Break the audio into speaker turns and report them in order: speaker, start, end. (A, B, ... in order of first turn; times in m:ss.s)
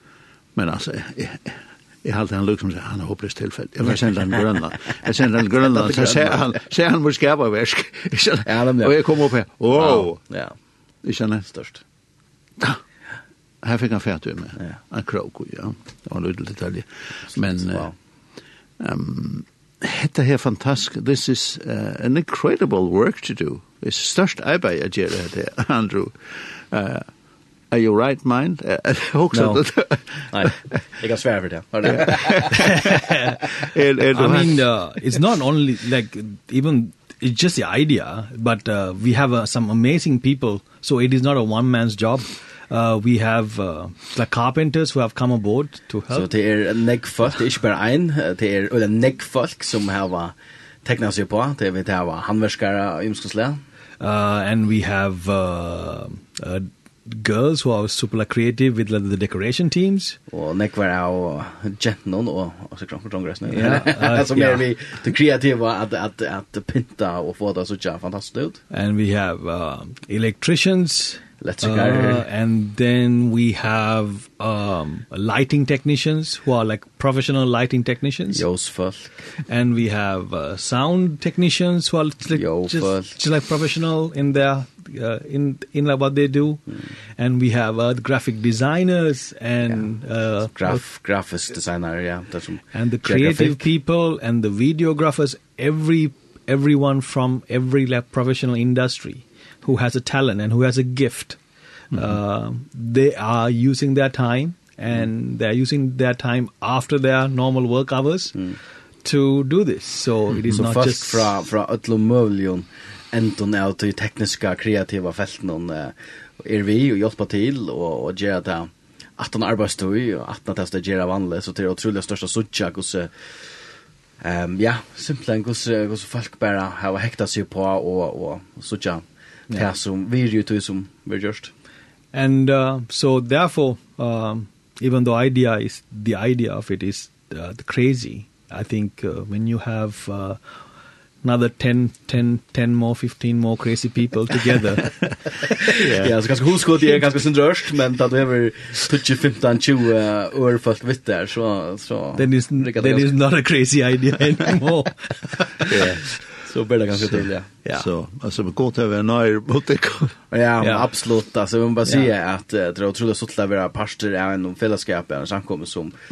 0:00.6-0:10.2 A
0:05.4-0:06.6 B
0:08.4-0:09.0 B
0:09.7-0:10.6 B
0:11.0-0:11.4 A
0:11.4-0:11.8 B
0:13.6-0:17.9 A
0:17.3-0:17.9 B
0:18.8-0:27.1 A
0:27.7-0:30.8 A
0:29.3-0:29.6 B
0:30.3-0:32.9 B
0:31.9-0:32.9 A
0:32.6-0:33.4 C
0:33.6-0:34.7 A
0:34.1-0:46.3 C
0:46.1-0:53.6 B
0:54.0-1:00.2 C
1:00.3-1:08.6 B
1:03.5-1:04.7 C
1:08.7-1:18.4 C
1:11.4-1:12.2 B
1:18.3-1:19.1 B
1:19.4-1:30.8 C
1:22.3-1:23.2 B
1:30.4-1:33.6 B
1:32.7-1:41.4 C
1:41.9-1:42.2 A
1:41.9-1:51.3 C
1:50.5-2:03.1 B
2:04.2-2:11.5 B
2:12.1-2:20.4 C
2:21.2-2:25.6 C
2:25.6-2:33.1 B
2:25.8-2:26.1 A
2:32.2-2:35.8 C
2:35.7-2:36.0 A
2:36.4-2:37.5 B
2:37.1-2:40.2 A
2:40.3-2:45.9 B
2:40.6-2:40.9 C